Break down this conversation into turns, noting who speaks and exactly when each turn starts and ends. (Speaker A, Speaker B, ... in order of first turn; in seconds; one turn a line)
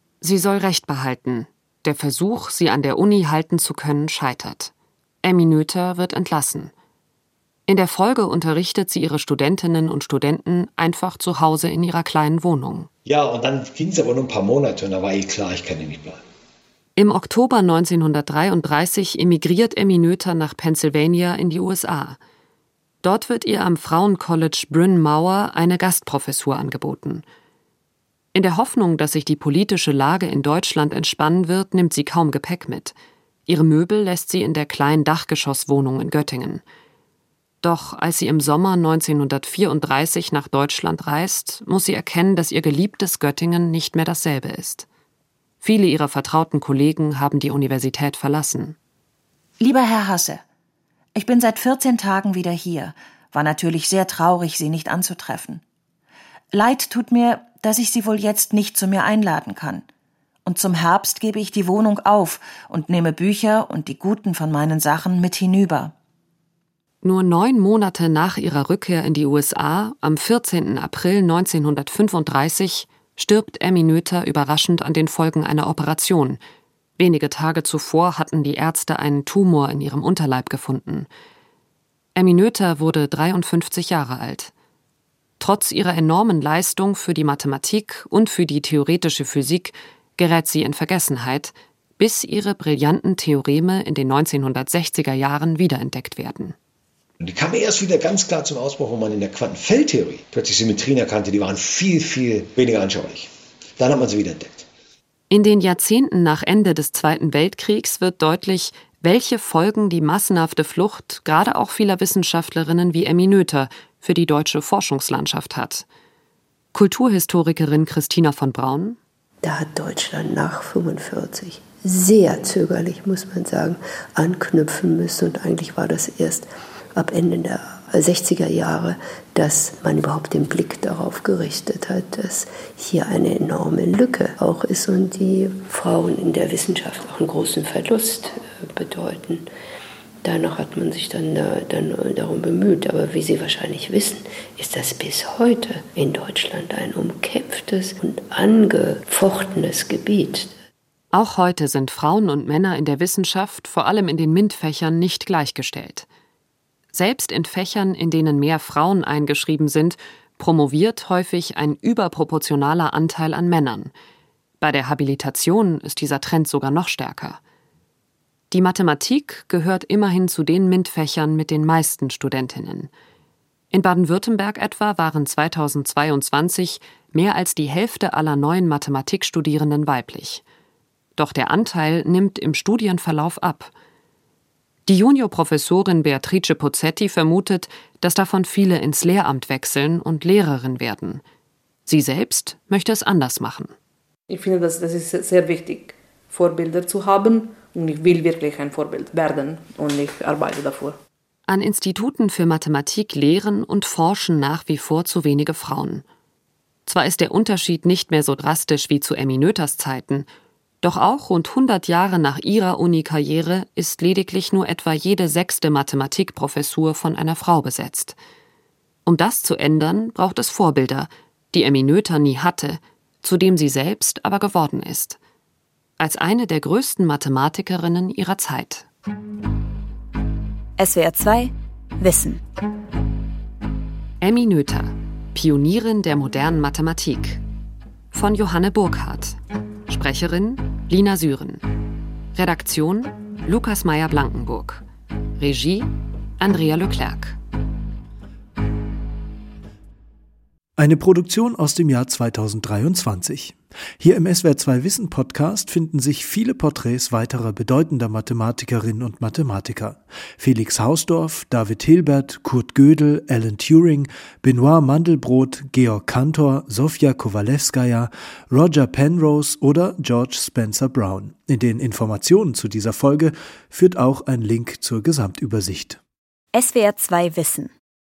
Speaker A: 0.2-4.7
Speaker A: 5.2-6.7
Speaker A: 7.7-12.9
Speaker B: 13.1-16.2
Speaker A: 17.0-22.2
Speaker A: 23.0-27.2
Speaker A: 28.3-33.0
Speaker A: 33.5-36.6
Speaker A: 37.6-44.9
Speaker A: 45.6-48.8
Speaker C: 49.6-50.4
Speaker C: 51.2-55.6
Speaker C: 56.5-59.9
Speaker C: 60.5-65.9
Speaker A: 67.0-76.4
Speaker A: 77.0-81.1
Speaker A: 82.2-84.5
Speaker A: 85.4-96.6
Speaker B: 97.2-104.7
Speaker A: 105.3-115.9
Speaker A: 116.7-119.0
Speaker D: 119.4-139.5
Speaker D: 140.2-150.5
Speaker A: 151.1-156.1
Speaker A: 156.9-163.9
Speaker A: 164.6-167.4
Speaker A: 168.5-172.9
Speaker A: 173.7-180.4
Speaker A: 181.2-183.7
Speaker A: 184.9-191.2
Speaker A: 191.9-193.7
Speaker E: 194.3-201.0
Speaker A: 201.5-206.0
Speaker A: 206.9-210.3
Speaker A: 210.8-218.2
Speaker A: 219.1-225.2
Speaker A: 226.0-228.9
Speaker F: 230.8-232.4
Speaker A: 234.2-237.4
Speaker A: 238.1-241.7
Speaker A: 242.3-244.8
Speaker A: 245.4-247.4
Speaker G: 250.8-276.0
Speaker F: 276.5-277.7